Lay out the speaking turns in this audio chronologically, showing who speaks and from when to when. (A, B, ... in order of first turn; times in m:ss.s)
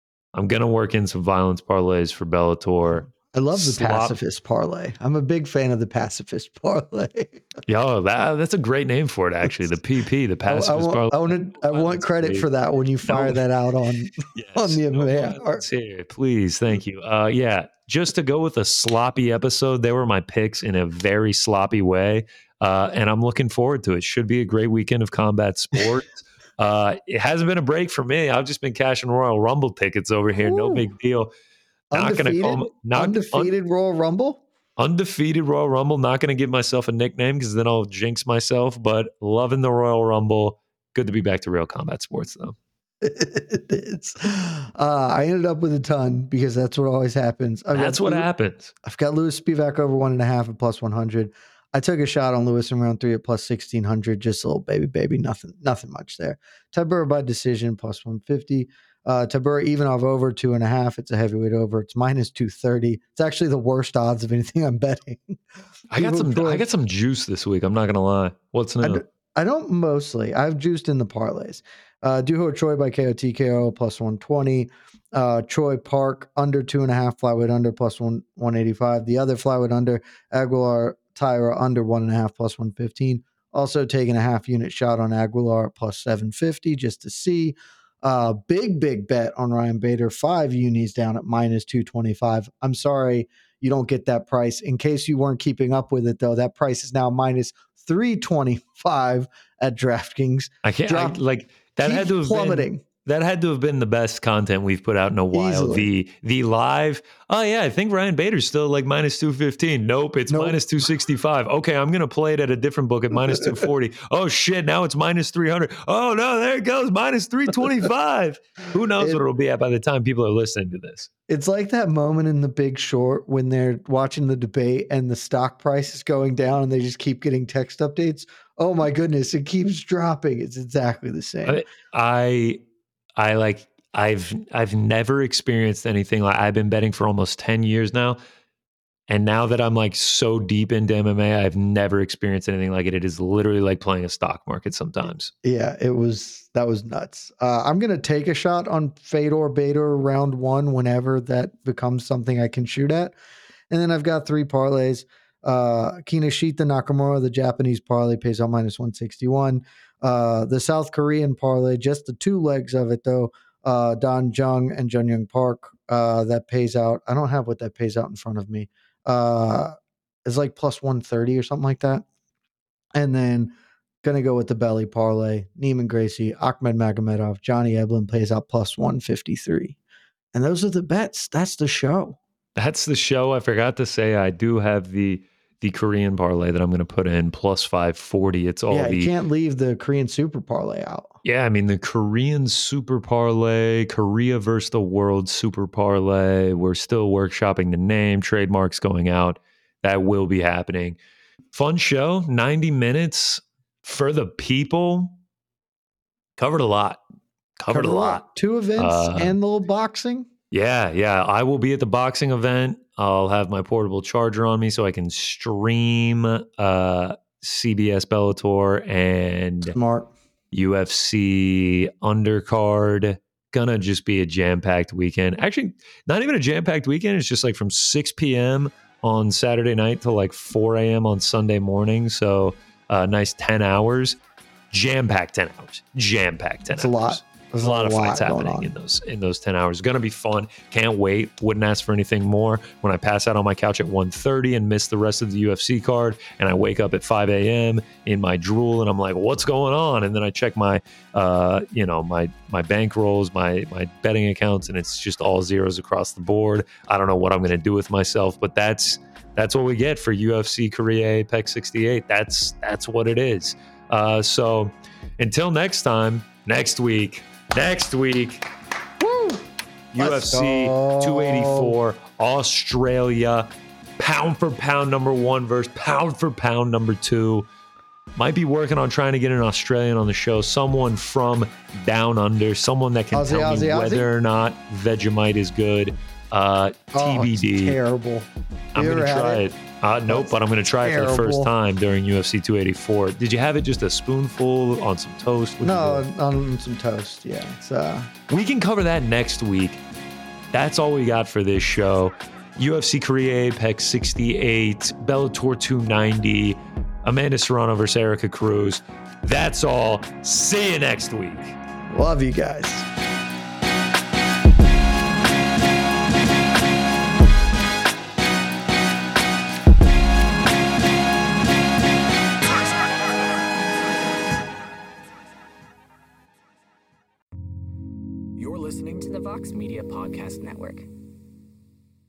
0:00.3-0:04.1 A
0:03.1-0:07.5 B
0:07.7-0:12.5 A
0:10.5-0:15.6 B
0:13.1-0:13.4 A
0:14.3-0:31.3 A
0:30.4-0:30.9 B
0:31.9-0:34.4 B
0:31.9-0:33.5 A
0:34.8-0:42.6 A
0:43.0-0:48.3 B
0:47.7-0:48.7 A
0:48.8-1:05.4 B
1:05.9-1:09.0 A
1:05.9-1:06.6 B
1:08.8-1:41.2 B
1:40.6-2:01.1 A
1:41.8-1:42.8 B
1:45.3-1:45.9 B
1:50.3-1:50.6 B
2:01.3-2:11.6 B
2:11.4-2:12.6 A
2:13.2-2:18.2 A
2:19.1-2:25.3 A
2:25.4-2:33.1 B
2:33.7-2:52.0 B
2:52.9-2:59.8 B
3:00.3-3:02.2 B
3:02.6-3:09.1 A
3:08.7-3:11.1 B
3:11.2-3:21.0 A
3:21.5-3:25.2 A
3:26.4-3:27.0 A
3:27.6-3:28.2 A
3:27.7-3:30.3 B
3:28.8-3:29.4 A
3:30.5-3:39.7 A
3:39.7-3:40.1 B
3:40.5-3:54.2 A
3:54.7-4:28.4 A
3:56.7-3:58.7 B
4:29.0-4:29.4 B
4:29.9-4:37.5 A
4:30.0-4:31.8 B
4:38.2-4:47.8 A
4:43.1-4:44.1 B
4:46.9-4:49.4 B
4:48.7-4:56.0 A
4:50.1-4:51.5 B
4:55.6-4:58.1 B
4:58.3-4:59.8 A
5:00.5-5:11.6 A
5:11.9-5:12.9 B
5:28.4-5:30.9 C